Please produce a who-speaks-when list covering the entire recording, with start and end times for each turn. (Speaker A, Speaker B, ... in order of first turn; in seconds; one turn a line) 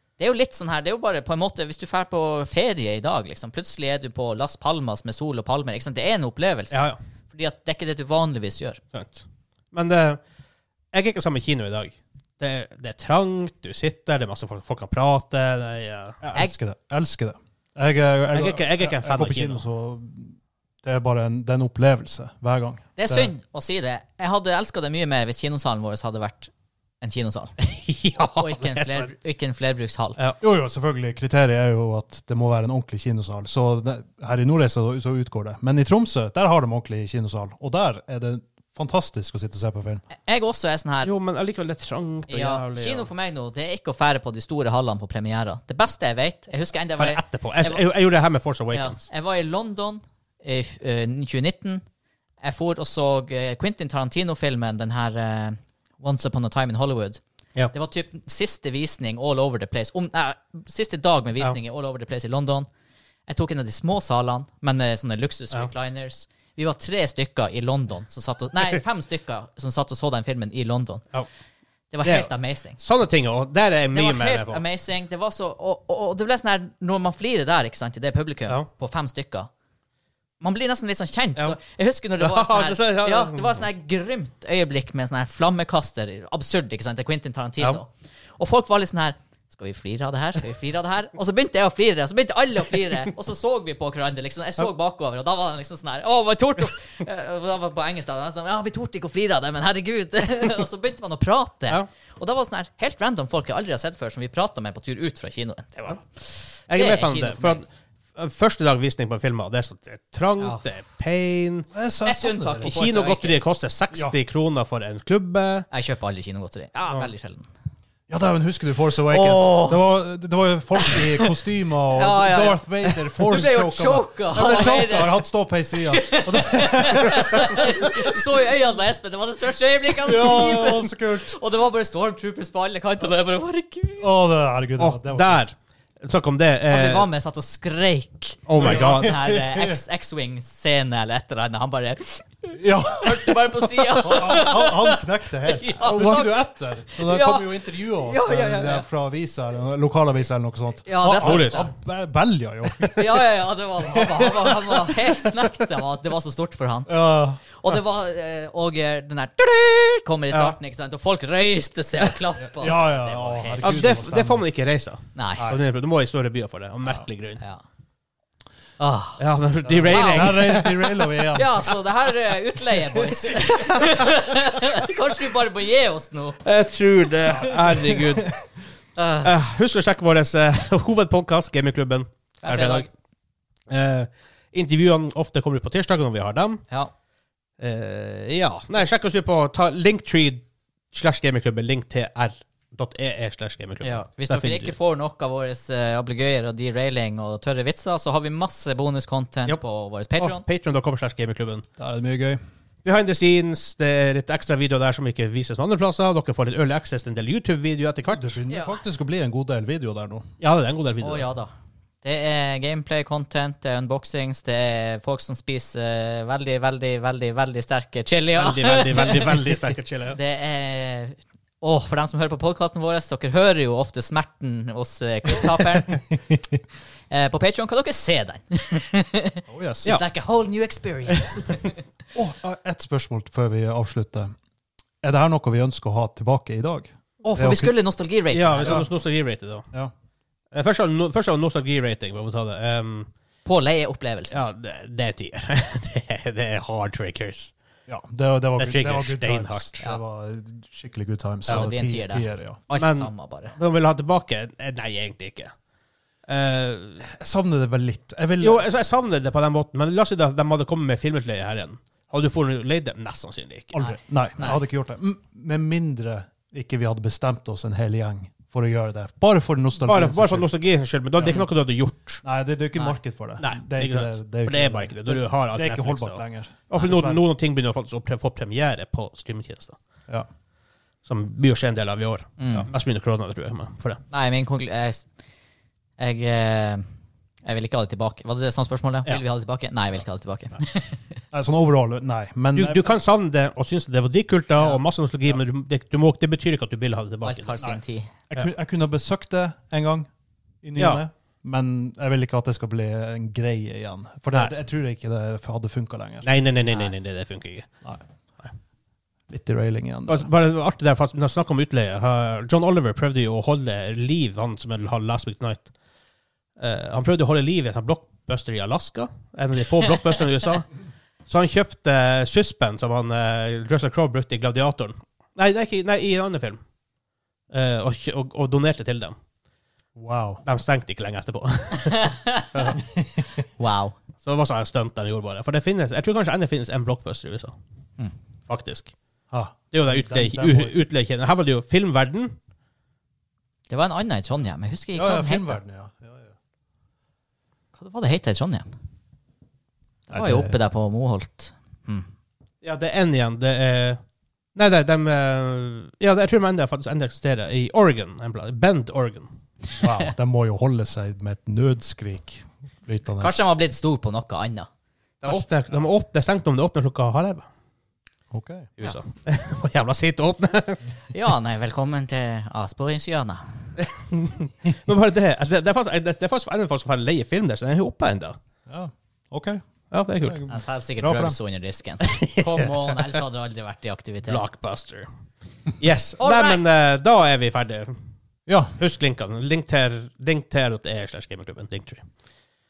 Speaker A: 0.2-8.8
Speaker B: 6.7-7.0
Speaker B: 8.9-10.2
Speaker B: 10.9-16.2
Speaker C: 16.2-23.3
Speaker B: 18.3-19.6
Speaker A: 23.0-27.5
Speaker B: 27.6-29.1
Speaker A: 28.4-30.2
Speaker C: 30.4-40.0
Speaker A: 40.2-41.1
Speaker B: 41.0-43.1
Speaker A: 42.3-47.8
Speaker B: 46.9-49.0
Speaker A: 48.7-51.8
Speaker A: 52.4-57.2
Speaker A: 57.7-62.7
Speaker A: 63.3-71.0
Speaker A: 71.9-72.8
Speaker B: 72.0-74.6
Speaker A: 73.9-79.5
Speaker A: 80.4-107.6
Speaker B: 82.2-83.6
Speaker B: 106.7-111.7
Speaker C: 111.7-112.7
Speaker A: 112.0-113.5
Speaker B: 112.6-115.7
Speaker A: 115.7-117.5
Speaker C: 118.1-128.2
Speaker A: 119.1-119.9
Speaker A: 120.8-121.3
Speaker A: 121.9-134.1
Speaker C: 129.9-131.4
Speaker C: 134.0-135.4
Speaker B: 134.8-137.1
Speaker A: 136.7-148.8
Speaker B: 138.5-139.2
Speaker C: 138.6-139.8
Speaker C: 142.6-155.6
Speaker B: 145.8-146.2
Speaker A: 150.8-151.7
Speaker B: 151.2-151.7
Speaker A: 152.9-164.0
Speaker C: 156.9-157.8
Speaker C: 162.4-164.4
Speaker B: 163.6-167.4
Speaker A: 165.1-165.5
Speaker A: 168.8-169.2
Speaker B: 169.2-171.0
Speaker C: 169.7-171.7
Speaker A: 169.8-170.8
Speaker A: 171.3-176.4
Speaker B: 173.4-174.1
Speaker B: 176.4-178.3
Speaker C: 177.3-178.4
Speaker A: 178.9-179.3
Speaker B: 179.2-182.9
Speaker A: 182.4-182.9
Speaker B: 183.7-186.6
Speaker B: 187.6-194.7
Speaker A: 193.8-200.4
Speaker B: 200.2-201.6
Speaker C: 201.8-202.4
Speaker B: 202.8-208.4
Speaker C: 208.1-210.3
Speaker A: 208.5-208.8
Speaker B: 210.4-211.3
Speaker A: 211.0-211.5
Speaker A: 212.0-219.4
Speaker B: 218.3-220.2
Speaker A: 220.1-226.1
Speaker C: 225.4-226.6
Speaker A: 227.1-231.8
Speaker C: 229.5-229.9
Speaker B: 231.2-231.7
Speaker C: 232.1-234.3
Speaker C: 235.0-237.7
Speaker A: 237.2-238.9
Speaker B: 238.3-239.6
Speaker C: 238.6-238.9
Speaker B: 240.5-243.1
Speaker A: 243.4-244.3
Speaker B: 244.3-247.5
Speaker C: 247.9-252.6
Speaker B: 248.6-249.8
Speaker A: 251.5-253.5
Speaker B: 252.7-255.5
Speaker B: 256.3-257.1
Speaker C: 257.0-258.7
Speaker B: 258.4-263.7
Speaker C: 263.7-270.5
Speaker A: 263.8-264.6
Speaker B: 269.8-272.2
Speaker C: 272.2-277.2
Speaker B: 273.4-279.8
Speaker B: 281.0-284.0
Speaker A: 282.4-282.7
Speaker A: 284.1-285.1
Speaker A: 286.0-286.8
Speaker A: 287.4-291.2
Speaker C: 291.3-292.9
Speaker B: 292.5-297.8
Speaker A: 294.6-294.8
Speaker A: 297.2-298.1
Speaker C: 298.3-300.1
Speaker C: 300.6-306.3
Speaker B: 300.8-301.0
Speaker B: 306.2-307.7
Speaker A: 306.7-306.9
Speaker C: 309.3-310.3
Speaker B: 310.1-315.7
Speaker B: 316.6-320.7
Speaker B: 321.3-326.6
Speaker B: 327.5-329.1
Speaker C: 329.9-330.4
Speaker B: 330.4-332.1
Speaker A: 331.9-332.6
Speaker C: 332.5-333.4
Speaker A: 333.6-333.9
Speaker B: 334.2-337.6
Speaker B: 338.5-338.9
Speaker C: 339.3-340.7
Speaker B: 339.7-342.4
Speaker A: 343.7-345.6
Speaker C: 344.9-346.3
Speaker A: 347.7-348.7
Speaker C: 350.1-350.6
Speaker A: 350.1-352.1
Speaker B: 352.6-354.0
Speaker B: 354.5-359.3
Speaker C: 359.7-363.5
Speaker A: 363.2-364.7
Speaker B: 365.2-367.5
Speaker C: 368.3-368.7
Speaker B: 368.8-370.8
Speaker A: 371.1-373.4
Speaker B: 373.8-378.4
Speaker C: 378.7-379.6
Speaker B: 379.9-380.4
Speaker C: 380.2-381.4
Speaker A: 380.5-384.4
Speaker B: 382.0-383.2
Speaker B: 384.2-385.1
Speaker B: 385.8-388.0
Speaker A: 386.2-386.6
Speaker C: 388.5-388.8
Speaker B: 388.8-392.0